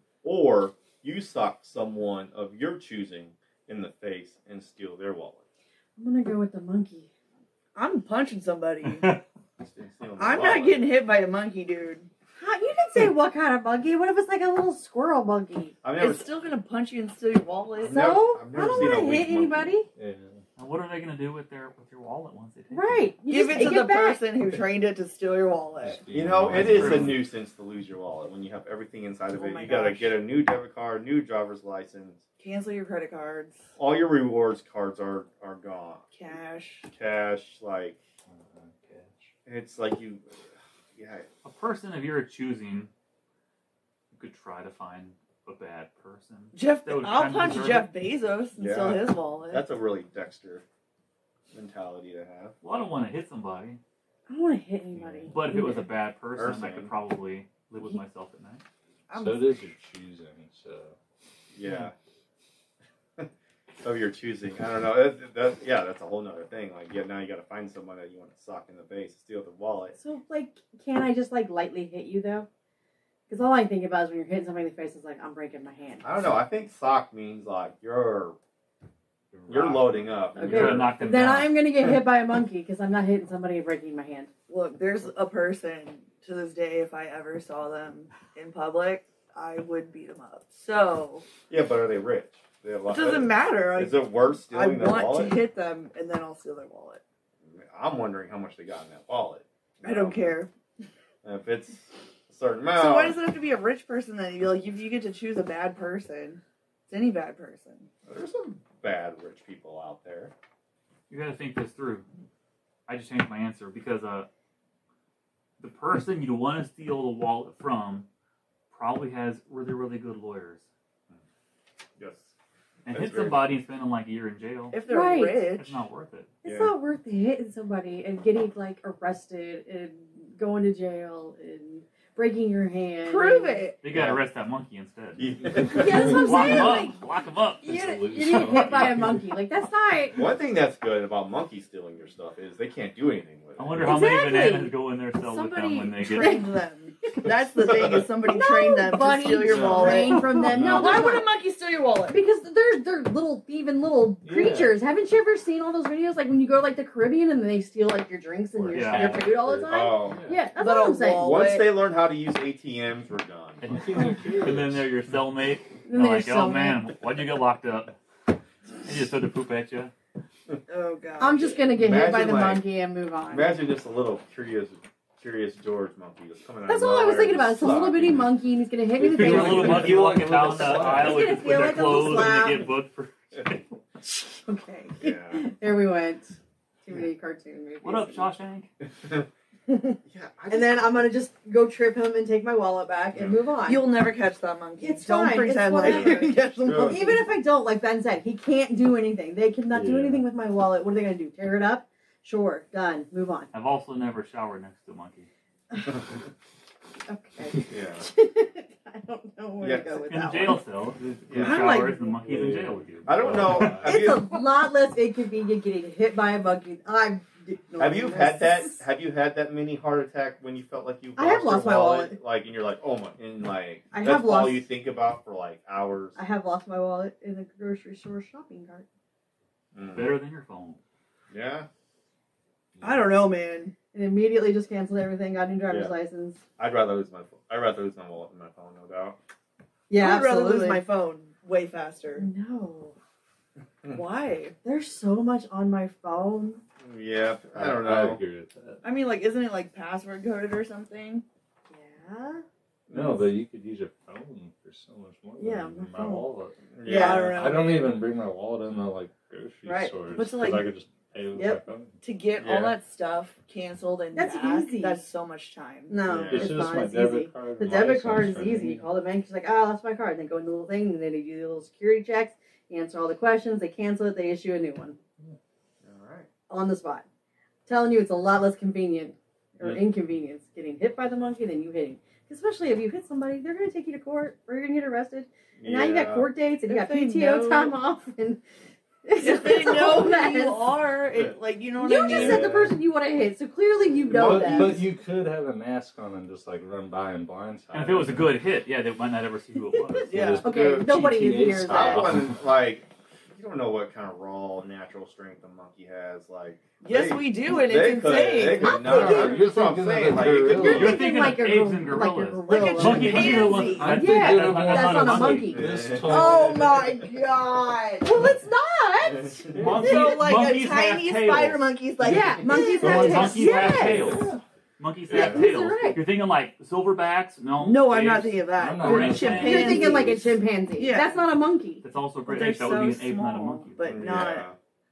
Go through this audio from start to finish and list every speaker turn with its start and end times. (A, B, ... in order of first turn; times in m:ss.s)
0:00.2-0:05.4 A
0:06.0-0:07.1 B
0:07.7-0:09.0 C
0:08.8-0:09.2 D
0:09.6-0:10.8 A
0:10.2-0:12.1 C
0:12.4-0:15.8 B
0:15.8-0:16.2 A
0:15.9-0:18.0 C
0:17.8-0:19.7 A
0:17.8-0:19.9 B
0:20.0-0:20.4 E
0:20.6-0:23.1 D
0:22.7-0:24.2 B
0:23.3-0:26.0 C
0:25.8-0:27.2 E
0:26.1-0:32.2 A
0:26.5-0:27.2 D
0:29.3-0:30.2 C
0:32.4-0:33.7 C
0:33.8-0:36.0 A
0:36.1-0:36.9 C
0:36.9-0:38.0 A
0:38.3-0:39.3 E
0:39.4-0:40.3 A
0:41.0-0:41.2 A
0:41.4-0:42.9 D
0:44.1-0:47.9 D
0:46.5-0:49.7 C
0:48.6-0:50.6 A
0:51.5-0:52.5 A
0:52.6-0:53.8 D
0:54.3-0:55.8 B
0:54.9-0:55.3 E
0:55.3-0:58.6 D
0:56.3-0:56.9 A
0:59.1-0:59.4 C
0:59.1-1:01.0 E
1:01.5-1:01.9 A
1:03.8-1:10.0 A
1:10.0-1:12.5 B
1:13.3-1:16.0 B
1:16.0-1:18.4 A
1:19.3-1:20.8 E
1:19.5-1:20.9 A
1:20.4-1:24.3 B
1:20.4-1:21.6 D
1:24.5-1:31.2 C
1:31.5-1:35.4 A
1:32.9-1:37.0 C
1:37.4-1:40.4 A
1:39.8-1:40.5 C
1:41.2-1:43.2 A
1:42.7-1:47.9 C
1:48.0-1:50.3 A
1:51.1-1:52.0 D
1:52.9-1:54.3 D
1:55.6-1:58.1 D
1:58.7-2:00.6 D
2:02.0-2:02.3 A
2:02.8-2:04.8 D
2:02.9-2:03.4 A
2:04.7-2:05.8 C
2:04.9-2:05.5 B
2:05.5-2:06.3 D
2:06.4-2:06.7 A
2:06.4-2:13.6 B
2:13.0-2:13.8 C
2:13.8-2:19.0 D
2:13.9-2:14.2 A
2:15.2-2:16.6 A
2:15.7-2:16.9 B
2:16.3-2:16.9 C
2:17.6-2:19.3 E
2:17.6-2:20.2 B
2:20.1-2:24.0 A
2:23.6-2:26.4 D
2:23.8-2:26.5 B
2:26.0-2:32.2 C
2:27.7-2:28.0 A
2:28.2-2:31.3 B
2:29.5-2:30.1 A
2:30.4-2:30.7 D
2:30.5-2:31.2 E
2:32.1-2:41.3 B
2:34.2-2:34.8 E
2:38.5-2:40.5 E
2:38.7-2:39.2 D
2:39.7-2:40.2 A
2:40.6-2:41.7 C
2:41.2-2:43.6 A
2:43.6-2:48.0 D
2:43.6-2:44.8 E
2:45.9-2:46.8 B
2:48.8-2:49.9 D
2:50.7-2:51.6 C
2:51.2-2:53.6 B
2:51.8-2:52.7 A
2:53.3-2:58.3 A
2:56.6-3:00.0 B
2:59.0-3:01.8 E
2:59.1-3:03.8 D
3:00.6-3:02.7 B
3:04.0-3:08.4 B
3:05.0-3:05.4 A
3:07.8-3:08.7 D
3:08.8-3:09.3 A
3:09.7-3:10.0 B
3:10.1-3:11.0 A
3:10.5-3:13.9 B
3:13.1-3:13.4 A
3:13.6-3:17.3 C
3:14.8-3:23.5 B
3:16.6-3:17.2 A
3:19.7-3:20.2 E
3:23.5-3:25.3 D
3:27.1-3:30.6 B
3:27.7-3:28.1 A
3:29.6-3:29.9 A
3:30.0-3:33.8 D
3:31.3-3:31.7 A
3:31.8-3:32.1 B
3:32.0-3:33.9 E
3:33.0-3:34.2 A
3:33.8-3:38.8 B
3:37.8-3:46.2 A
3:41.2-3:42.2 B
3:43.9-3:44.6 B
3:46.2-3:48.8 B
3:49.7-3:50.1 A
3:49.9-3:50.8 D
3:51.3-3:51.7 A
3:52.8-3:53.1 E
3:52.8-3:53.8 C
3:53.9-3:56.4 B
3:55.7-3:55.9 A
3:56.6-3:59.2 A
3:59.9-4:00.8 B
4:00.0-4:02.2 C
4:02.2-4:02.9 B
4:03.9-4:04.5 C
4:04.6-4:06.6 B
4:06.8-4:08.2 A
4:07.5-4:08.8 E
4:08.8-4:11.2 C
4:11.7-4:12.4 B
4:12.9-4:13.3 A
4:12.9-4:21.9 E
4:15.4-4:16.2 B
4:16.7-4:17.5 A
4:16.8-4:17.8 C
4:19.6-4:20.7 C
4:21.3-4:21.6 B
4:22.0-4:26.0 C
4:22.4-4:22.8 A
4:24.1-4:25.0 B
4:25.9-4:35.0 B
4:26.0-4:26.6 A
4:26.3-4:28.8 E
4:35.8-4:36.3 A
4:36.5-4:37.0 B
4:37.7-4:48.4 B
4:45.6-4:46.3 A
4:46.7-4:47.8 C
4:49.0-4:50.6 B
4:49.2-4:52.5 C
4:51.8-4:54.8 B
4:52.0-4:52.8 E
4:54.1-4:54.9 A
4:54.1-4:58.3 E
4:57.7-5:00.2 D
5:00.1-5:00.4 C
5:00.1-5:02.4 E
5:00.4-5:02.2 B
5:00.4-5:01.0 A
5:01.6-5:11.0 A
5:06.8-5:08.9 C
5:08.4-5:09.5 B
5:08.8-5:11.0 E
5:10.5-5:15.6 B
5:10.7-5:15.5 D
5:12.5-5:14.0 C
5:12.8-5:16.8 E
5:15.5-5:16.4 A
5:16.0-5:18.0 C
5:16.3-5:16.6 B
5:18.0-5:20.0 B
5:19.6-5:21.6 D
5:19.8-5:23.0 C
5:22.0-5:24.1 B
5:22.0-5:24.3 E
5:22.8-5:30.0 D
5:25.1-5:26.0 B
5:25.1-5:25.4 A
5:27.6-5:30.2 C
5:28.6-5:30.4 E
5:29.3-5:31.8 B
5:30.7-5:31.2 C
5:31.8-5:33.9 D
5:32.2-5:34.4 C
5:33.9-5:34.5 A